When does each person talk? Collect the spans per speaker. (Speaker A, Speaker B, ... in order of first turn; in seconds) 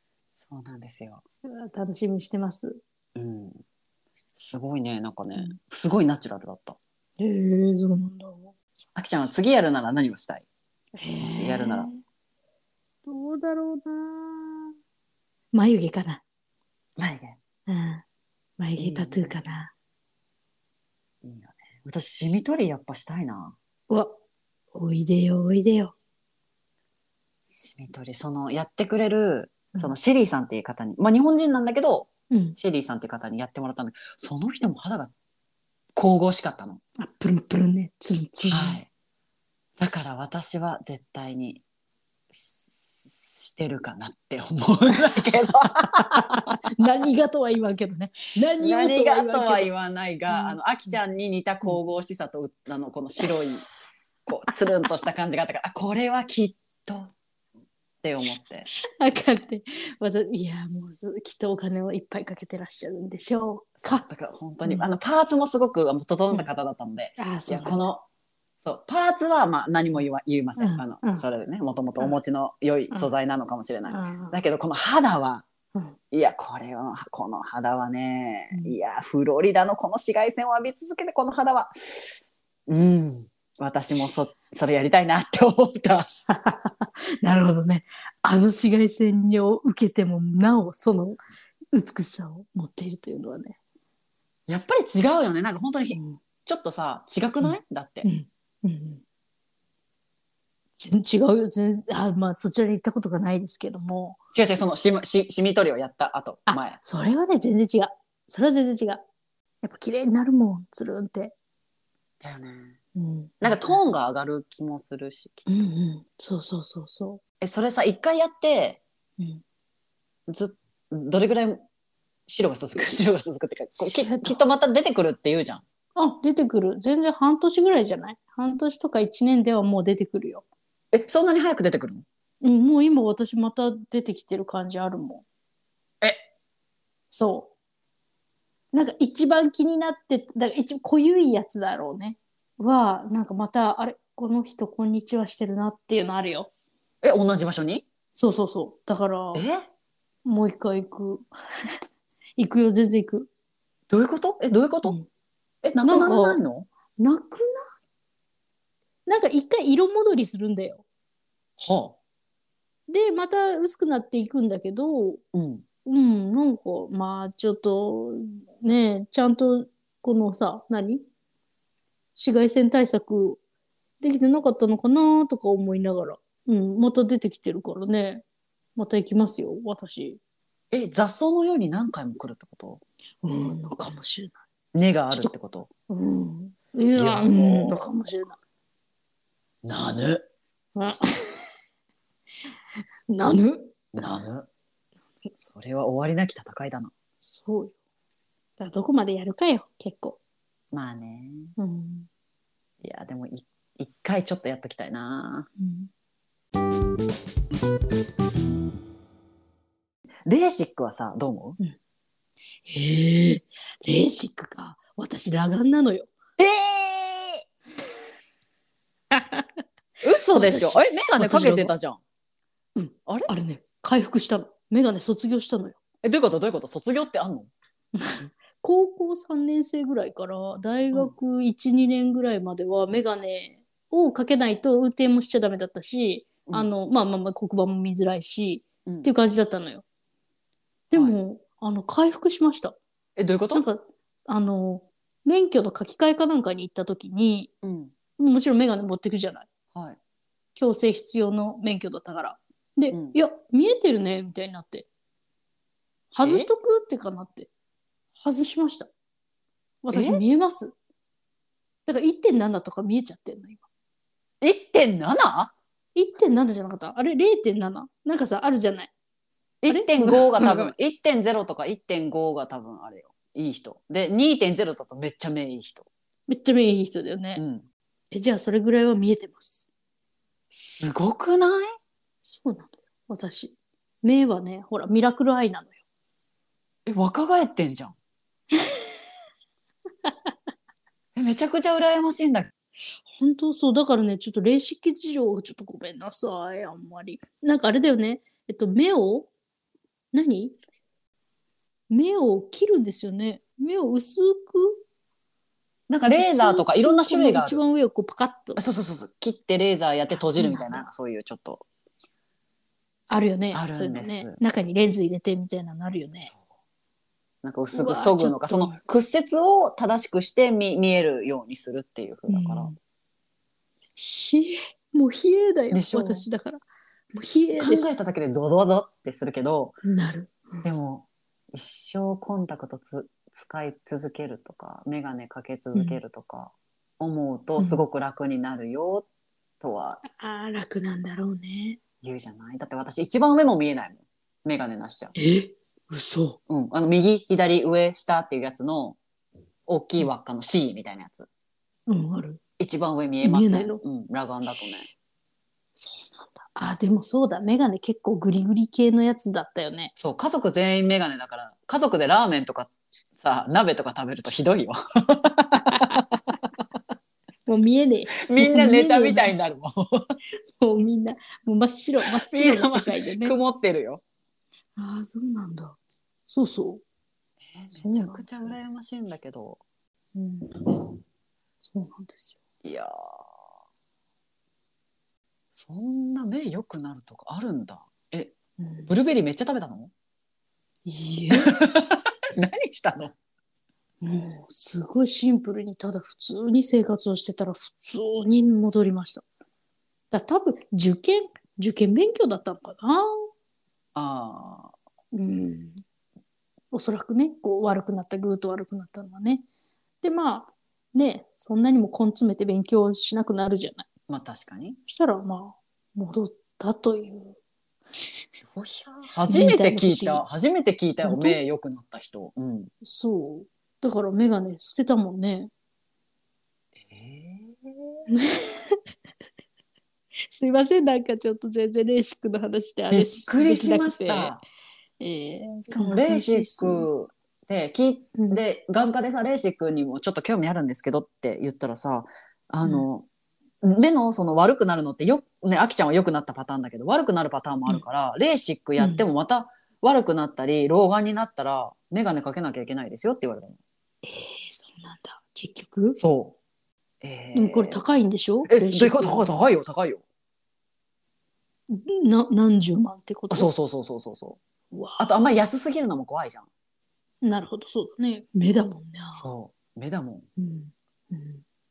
Speaker A: 0.4-1.2, 3.1-3.6, 4.3-6.8, 8.9-10.4, 11.2-11.9, 17.0-17.4, 18.8-19.4, 21.2-23.6, 27.5-35.1, 35.9-36.8, 38.5-38.9, 39.8-41.6, 42.3-46.5, 48.6-53.6, 54.2-57.1, 58.0-58.7, 63.9-68.0, 68.6-75.5, 76.1-86.1, 94.5-98.1, 104.3-106.8, 112.2-112.8, 113.4-115.5, 117.4-118.8, 120.3-121.6, 122.3-125.6, 130.9-132.0, 147.0-147.8, 149.3-149.6, 153.9-155.0, 155.6-156.7, 161.6-161.9, 165.3-165.6, 180.7-182.8, 184.7-185.7, 186.9-187.8, 189.6-190.2, 193.9-194.5, 195.5-196.9, 200.7-201.5, 202.8-205.5, 210.2-211.6, 216.4-217.4, 220.0-222.0, 226.0-227.5, 243.2-243.6, 247.6-247.9, 252.9-253.2, 256.2-256.5, 259.9-260.2, 264.4-265.5, 269.6-275.9, 277.4-277.6, 280.7-281.7, 286.9-287.9, 291.1-292.5, 305.9-307.6, 308.6-311.6, 313.5-314.4, 317.4-322.7, 325.7-326.3, 327.6-329.8, 330.6-339.1, 339.6-340.0, 342.0-345.1, 346.5-349.0, 349.7-351.3, 352.6-354.9, 360.0-366.2, 368.2-370.0, 372.2-374.0, 377.5-379.6, 382.6-383.2, 385.5-388.3, 388.9-389.9, 391.4-393.1, 403.9-404.7, 414.1-414.8, 418.4-422.7, 426.8-427.9, 432.9-434.4, 435.8-443.1, 443.6-453.6, 456.0-456.4, 457.0-457.8, 458.5-460.0, 463.3-464.4, 465.0-466.5, 469.1-470.2
Speaker B: 1.4-2.8, 7.2-8.6, 11.0-12.0, 13.1-14.7, 15.5-16.2, 17.7-18.0, 18.6-19.7, 23.9-24.1, 24.7-25.9, 32.3-32.6, 37.0-38.8, 45.8-49.7, 50.3-50.6, 59.0-64.1, 67.2-67.8, 70.6-71.2, 73.9-74.4, 86.3-91.2, 91.7-93.6, 95.9-96.2, 97.4-99.0, 100.8-104.2, 106.5-109.0, 109.6-111.3, 112.9-113.8, 115.5-117.2, 123.8-124.4, 126.0-130.4, 132.4-135.2, 137.1-137.5, 138.7-146.5, 148.2-149.4, 150.2-151.3, 152.4-153.3, 155.8-156.4, 157.0-157.7, 159.1-160.8, 162.9-165.2, 165.8-171.0, 172.2-173.4, 174.0-178.2, 178.8-180.2, 183.2-184.4, 185.9-188.4, 190.8-191.5, 193.1-194.2, 197.2-197.7, 198.6-200.2, 201.6-202.1, 205.6-205.9, 212.7-216.1, 219.1-219.4, 220.3-221.7, 222.8-225.8, 227.9-239.8, 240.9-242.8, 243.5-247.5, 248.2-249.5, 250.5-254.9, 256.1-257.5, 258.2-258.9, 259.8-260.7, 261.9-263.6, 265.9-268.9, 269.7-270.7, 276.3-277.4, 278.1-279.7, 282.2-285.8, 293.1-299.3, 300.1-300.6, 301.9-304.8, 306.1-308.6, 310.1-310.9, 313.1-316.3, 317.7-318.8, 322.3-322.8, 323.9-328.0, 329.8-330.6, 335.7-336.0, 337.6-337.8, 340.0-341.8, 345.1-346.4, 351.9-352.4, 353.2-353.8, 355.8-359.9, 365.7-366.0, 367.4-369.3, 370.6-373.4, 374.8-376.8, 377.7-378.3, 380.1-380.8, 381.6-382.4, 388.6-388.9, 390.9-391.5, 394.0-399.2, 400.1-403.1, 405.1-405.8, 406.7-409.4, 410.0-413.9, 414.9-417.4, 419.3-420.2, 421.0-421.4, 422.8-425.5, 428.1-428.8, 430.3-434.4, 435.0-436.9, 448.8-449.0, 454.0-456.0, 457.3-459.5, 461.7-463.5, 464.7-465.1, 467.2-469.2, 470.4-471.4